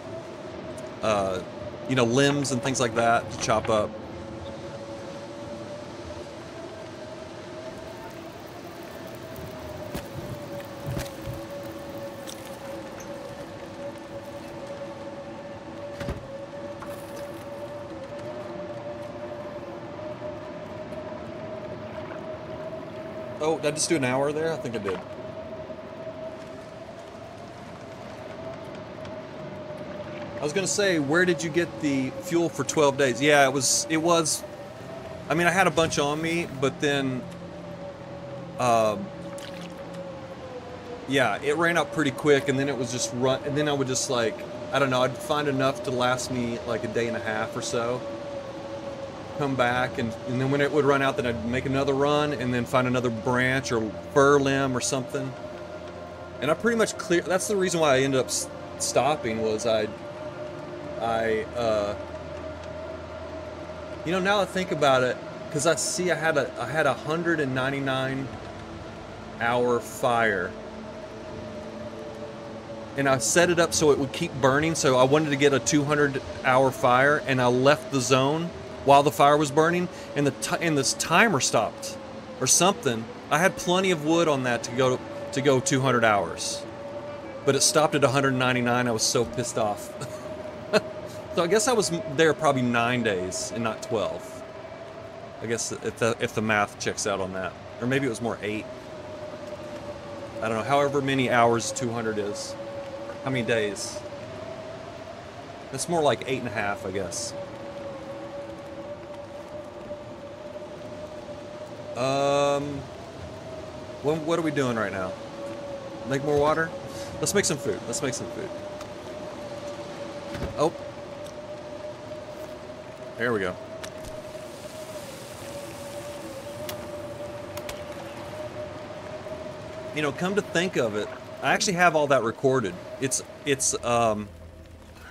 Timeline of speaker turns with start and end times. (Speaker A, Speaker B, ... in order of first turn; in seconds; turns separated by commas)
Speaker A: 1.0-3.9, Speaker A: 23.4-25.0, Speaker A: 30.4-34.5, Speaker A: 35.3-37.3, Speaker A: 38.6-39.1, Speaker A: 41.1-48.1, Speaker A: 49.4-55.4, Speaker A: 56.4-59.9, Speaker A: 61.0-62.0, Speaker A: 64.0-68.3, Speaker A: 69.4-70.6, Speaker A: 73.0-86.7, Speaker A: 87.4-90.0, Speaker A: 90.7-94.4, Speaker A: 95.4-98.7, Speaker A: 100.4-102.6, Speaker A: 103.2-104.0, Speaker A: 105.7-107.3, Speaker A: 112.0-112.9, Speaker A: 114.0-115.2, Speaker A: 116.0-118.5, Speaker A: 123.2-123.6, Speaker A: 129.9-134.3